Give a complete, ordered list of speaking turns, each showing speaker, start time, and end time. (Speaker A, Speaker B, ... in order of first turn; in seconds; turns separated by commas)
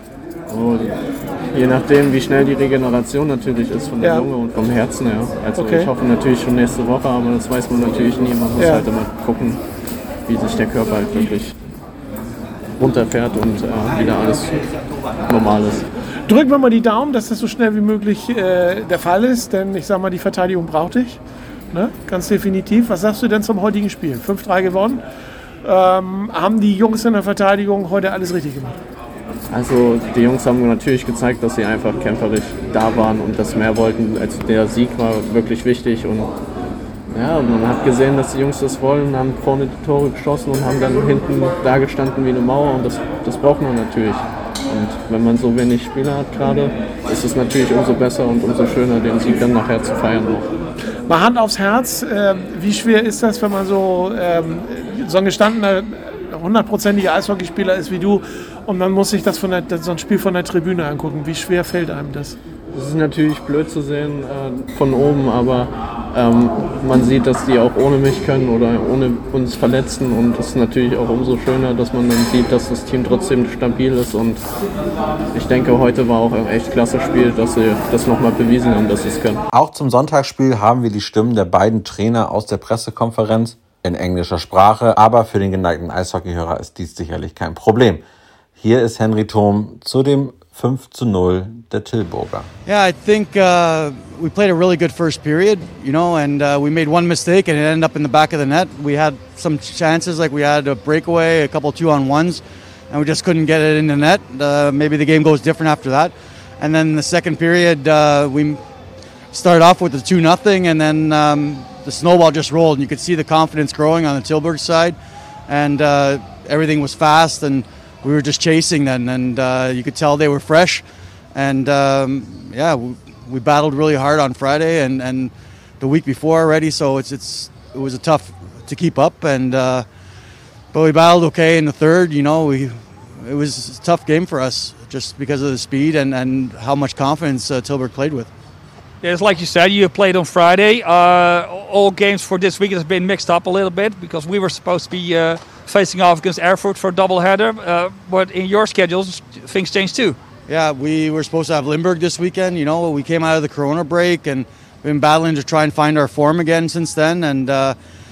Speaker A: 0.5-9.6, Speaker A: 10.3-11.5, Speaker A: 12.8-14.7, Speaker A: 15.3-15.8, Speaker B: 16.3-21.2, Speaker B: 21.7-25.0, Speaker B: 25.6-28.8, Speaker A: 29.5-36.3, Speaker A: 37.1-50.5, Speaker B: 51.1-62.4, Speaker A: 62.7-74.4, Speaker A: 75.3-79.4, Speaker C: 79.5-88.0, Speaker C: 88.6-92.5, Speaker D: 92.7-108.6, Speaker D: 109.3-115.0, Speaker D: 115.5-129.8, Speaker D: 130.7-138.3, Speaker E: 139.0-150.2, Speaker D: 150.5-157.8